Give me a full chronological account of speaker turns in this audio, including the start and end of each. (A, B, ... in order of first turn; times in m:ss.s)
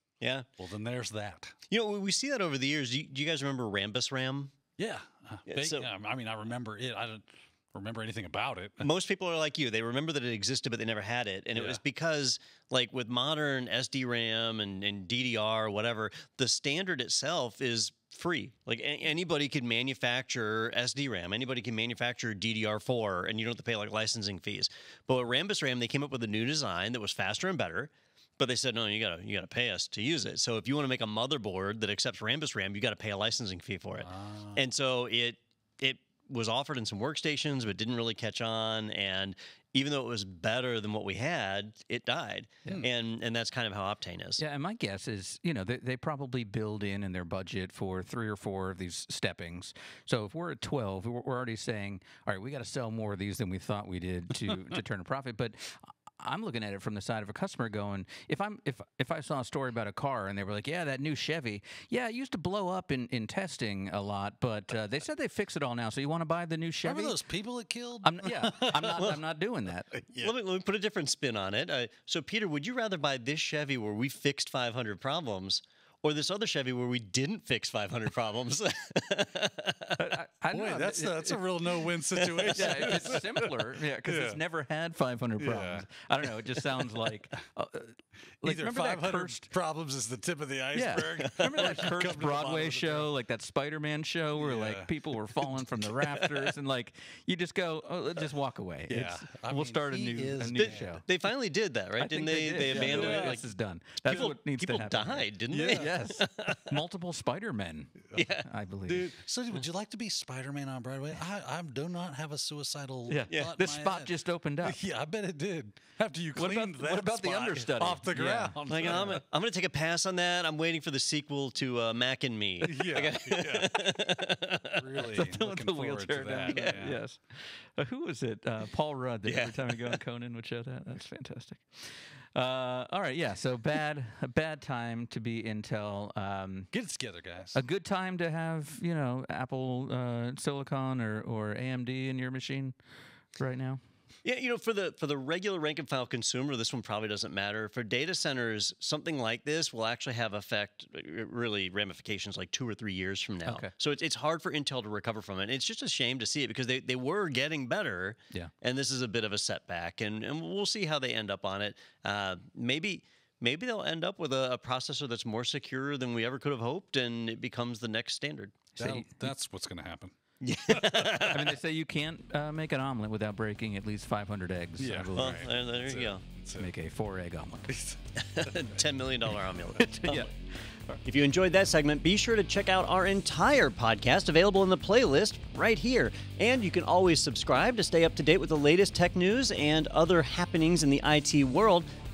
0:00.2-0:00.5 A
0:00.6-0:01.6 B
0:01.7-0:04.5 A
0:04.8-0:08.9 B
0:05.5-0:05.9 A
0:08.8-0:44.4 A
0:11.6-0:11.8 B
0:34.0-0:34.6 B
0:44.4-1:07.2 C
1:06.8-1:09.1 B
1:08.0-1:09.9 C
1:09.0-1:09.2 A
1:09.9-1:10.3 B
1:10.2-1:20.0 A
1:20.0-1:21.8 C
1:20.5-1:24.4 B
1:22.2-1:23.1 A
1:22.5-1:29.5 C
1:25.4-1:25.9 B
1:26.6-1:27.1 B
1:28.4-1:33.1 B
1:30.7-1:41.0 C
1:31.2-1:31.8 A
1:34.4-1:34.9 B
1:36.0-1:36.5 A
1:38.9-1:40.9 B
1:40.6-1:46.8 A
1:42.0-1:49.1 C
1:42.7-1:43.4 B
1:45.5-1:46.0 B
1:48.2-1:48.5 A
1:48.9-1:59.2 B
1:53.1-1:54.8 C
1:56.4-1:58.6 C
1:58.7-2:05.2 A
2:02.6-2:03.9 B
2:04.7-2:07.0 B
2:05.1-2:16.7 C
2:06.5-2:06.8 A
2:09.2-2:10.0 A
2:16.7-2:17.6 B
2:17.5-2:22.8 C
2:23.3-2:23.8 C
2:24.2-2:48.7 A
2:33.5-2:33.7 C
2:48.8-2:50.2 B
2:48.8-2:49.3 C
2:50.4-2:51.6 A
2:50.7-2:51.0 B
2:51.2-2:55.4 C
2:54.8-2:56.7 B
2:55.2-2:56.2 A
2:56.6-2:57.7 C
2:57.7-2:58.8 B
2:58.2-3:00.3 A
3:00.0-3:00.3 C
3:01.0-3:11.9 A